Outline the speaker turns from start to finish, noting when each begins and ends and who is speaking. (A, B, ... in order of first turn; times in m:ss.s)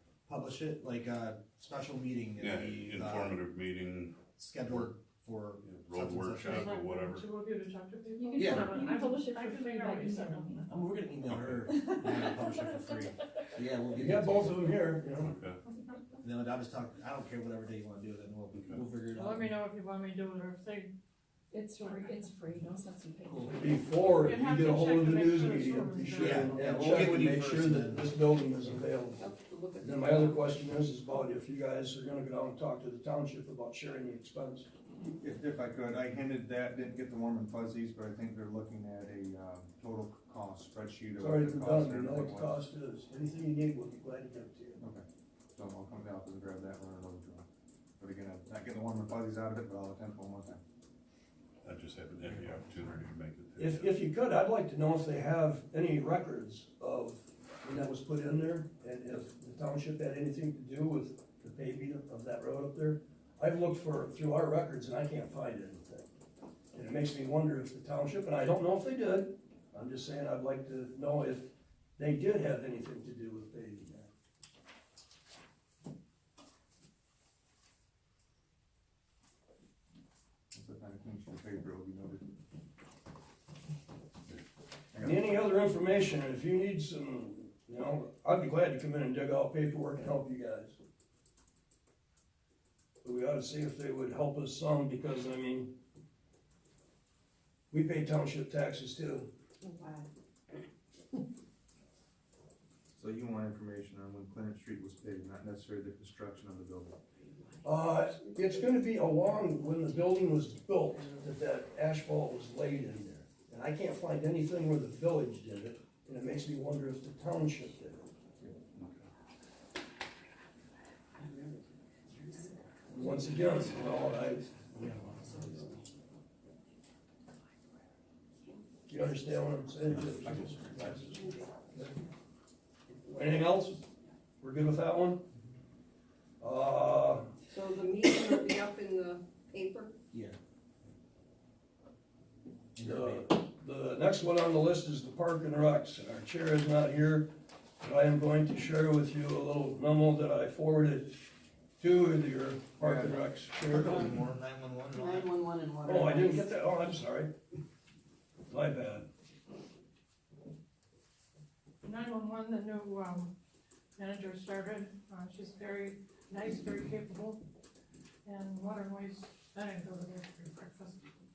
0:00.2-0:03.4 A
0:02.4-0:04.2 B
0:04.4-0:06.7 A
0:05.6-0:07.3 B
0:06.4-0:10.7 C
0:08.2-0:10.7 D
0:08.4-0:08.7 A
0:10.7-0:14.7 A
0:11.3-0:11.6 B
0:11.8-0:12.8 D
0:13.9-0:15.3 E
0:15.2-0:15.6 B
0:16.2-0:19.6 A
0:18.5-0:18.8 B
0:19.1-0:20.9 C
0:21.5-0:23.8 D
0:21.6-0:22.4 C
0:23.2-0:23.5 A
0:23.5-0:34.7 E
0:24.1-0:26.8 C
0:26.2-0:28.1 A
0:29.2-0:30.4 F
0:35.2-0:42.6 G
0:41.2-0:44.8 E
0:45.5-0:47.4 G
0:48.0-0:50.6 G
0:51.6-0:54.0 B
0:53.6-1:06.1 E
1:06.7-1:14.1 E
1:20.5-1:22.3 G
1:24.9-1:25.2 G
1:25.0-1:30.8 E
1:33.0-1:35.7 E
1:37.7-1:39.3 E
1:39.6-1:40.1 D
1:43.0-1:47.0 G
1:47.6-1:58.2 E
1:58.7-1:59.0 B
2:01.2-2:03.9 F
2:02.9-2:04.5 E
2:04.7-2:05.6 A
2:05.2-2:05.8 F
2:08.9-2:11.9 E
2:09.9-2:10.9 A
2:10.8-2:11.5 F
2:13.0-2:13.8 E
2:14.4-2:15.2 E
2:16.4-2:17.3 E
2:17.5-2:19.9 F
2:20.1-2:20.4 A
2:22.8-2:23.3 A
2:22.8-2:34.2 E
2:32.8-2:33.1 G
2:33.6-2:35.4 A
2:34.9-2:36.5 F
2:35.8-2:37.3 E
2:38.5-2:39.1 E
2:41.8-2:43.3 C
2:44.0-2:47.4 C
2:48.2-2:51.1 C